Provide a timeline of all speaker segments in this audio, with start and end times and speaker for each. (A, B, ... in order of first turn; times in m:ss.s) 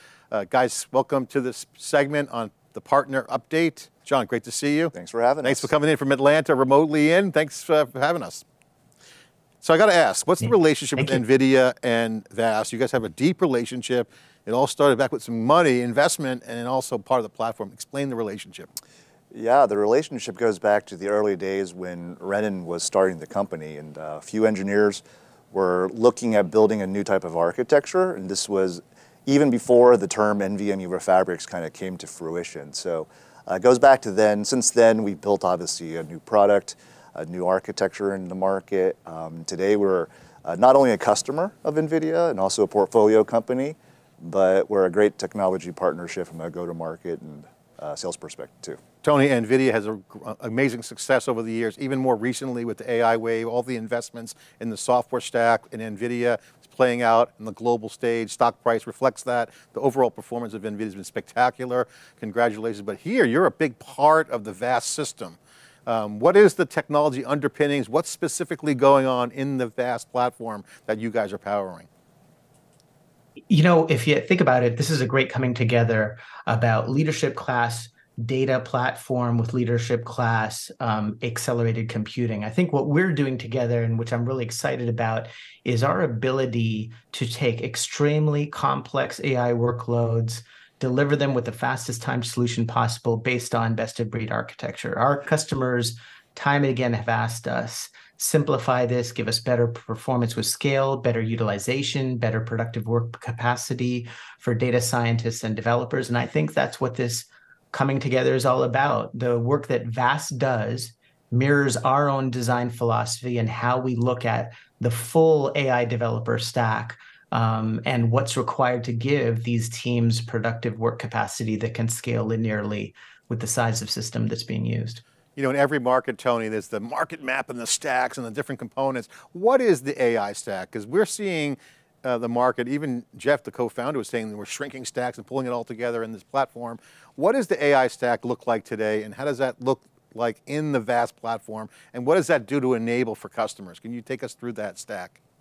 0:00.3-0:08.4 A
0:04.9-0:05.7 B
0:09.6-0:18.7 A
0:19.3-0:48.8 B
0:49.0-1:11.9 A
1:13.5-2:05.0 C
2:05.4-2:25.2 A